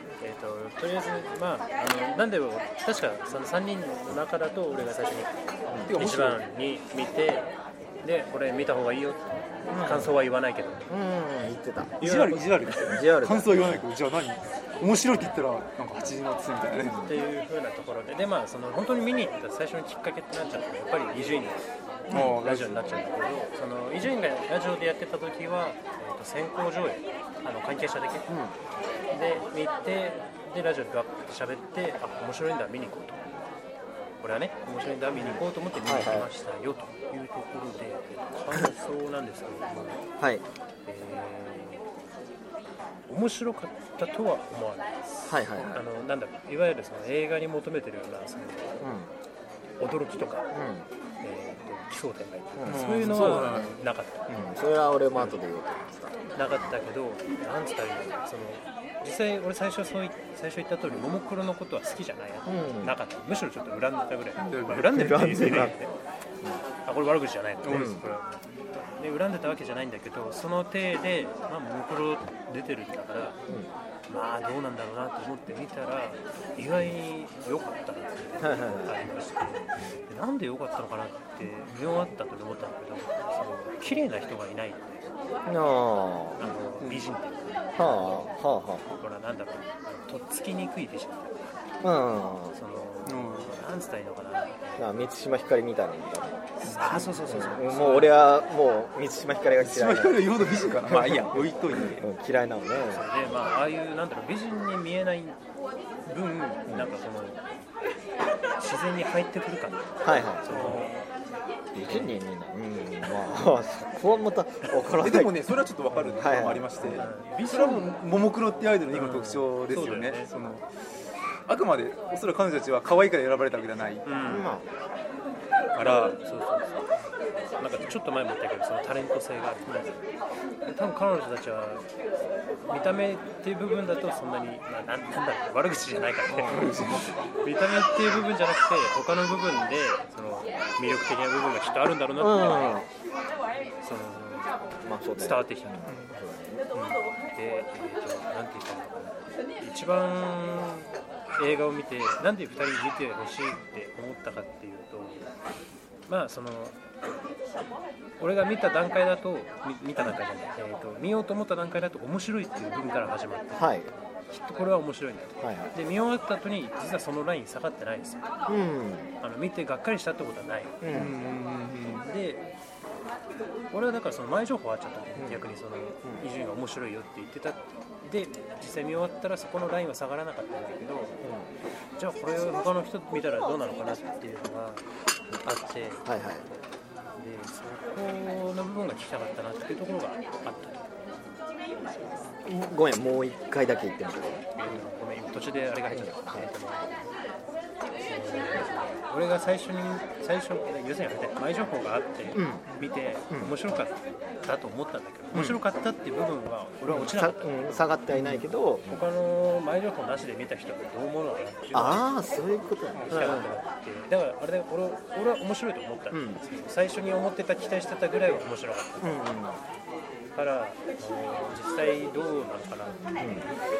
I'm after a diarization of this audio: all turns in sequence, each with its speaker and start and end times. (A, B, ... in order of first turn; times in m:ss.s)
0:00.2-0:10.9 A
0:05.7-0:06.0 B
0:05.8-0:06.4 C
0:09.7-0:10.2 B
0:10.9-0:12.0 B
0:12.0-0:17.0 C
0:12.0-0:12.6 A
0:12.8-0:13.9 B
0:16.8-0:28.3 A
0:16.8-0:17.2 B
0:22.1-0:22.4 B
0:22.1-0:23.0 C
0:28.3-0:28.6 B
0:29.1-0:33.3 A
0:34.2-0:40.0 A
0:35.1-0:36.3 B
0:38.5-0:39.0 B
0:40.2-0:40.4 B
0:40.9-0:41.8 A
0:43.1-0:48.8 A
0:45.3-0:45.8 B
0:48.8-0:49.1 B
0:49.8-0:50.5 A
0:50.5-0:50.9 B
0:51.2-0:54.5 A
0:52.6-0:53.6 B
0:52.6-0:53.8 C
0:54.3-0:56.7 B
0:55.1-0:55.4 A
0:56.4-1:05.9 A
1:02.5-1:03.0 B
1:04.4-1:05.5 C
1:04.9-1:05.8 B
1:06.8-1:13.4 A
1:07.6-1:08.0 C
1:07.7-1:08.0 B
1:13.5-1:13.7 B
1:14.1-1:25.0 A
1:18.4-1:19.0 B
1:25.4-1:26.6 B
1:26.4-1:28.3 A
1:26.8-1:27.2 C
1:27.8-1:28.9 B
1:28.8-1:31.5 A
1:31.8-1:32.6 B
1:32.6-1:34.6 A
1:33.0-1:33.6 C
1:34.8-1:43.1 B
1:36.6-1:37.2 C
1:36.7-1:38.3 A
1:37.8-1:38.1 C
1:39.6-1:42.1 C
1:42.8-1:45.4 A
1:46.1-1:46.7 C
1:46.7-1:47.0 B
1:46.7-1:47.4 A
1:48.6-1:51.1 A
1:50.0-1:50.8 B
1:50.5-1:50.9 C
1:51.7-1:55.4 B
1:51.8-1:52.2 A
1:55.0-2:00.7 C
1:56.1-1:57.1 B
1:56.8-1:57.9 A
1:58.9-2:00.3 A
2:01.5-2:04.1 C
2:04.0-2:04.6 A
2:04.2-2:04.7 B
2:05.8-2:06.2 C
2:05.8-2:06.8 A
2:07.6-2:10.0 A
2:10.6-2:11.9 A
2:12.7-2:16.7 A
2:16.3-2:17.2 C
2:17.4-2:22.9 A
2:22.2-2:22.9 B
2:23.8-2:24.5 A
2:24.8-2:26.6 B
2:25.2-2:25.8 A
2:25.9-2:26.2 C
2:26.7-2:35.2 A
2:36.1-2:36.8 A
2:38.2-2:43.8 A
2:43.6-2:43.9 B
2:44.3-2:48.2 A
2:45.4-2:45.8 B
2:48.5-2:49.2 B
2:49.2-2:50.8 A
2:50.8-2:51.2 B
2:50.9-2:52.1 C
2:52.0-2:52.4 A
2:53.7-3:01.2 A
2:55.2-2:55.5 B
2:56.0-2:56.3 B
3:01.2-3:01.5 B
3:02.0-3:04.8 A
3:05.4-3:06.0 A
3:06.0-3:06.5 B
3:07.2-3:10.8 A
3:12.4-3:14.6 B
3:14.6-3:16.9 A
3:15.9-3:16.5 B
3:18.0-3:32.1 A
3:22.3-3:22.7 B
3:23.3-3:23.6 B
3:25.3-3:25.6 B
3:26.9-3:29.1 B
3:31.7-3:33.6 B
3:32.9-3:33.4 C
3:33.1-3:39.2 A
3:36.1-3:36.4 B
3:39.0-3:39.6 B
3:40.3-3:43.1 A
3:43.2-3:43.5 B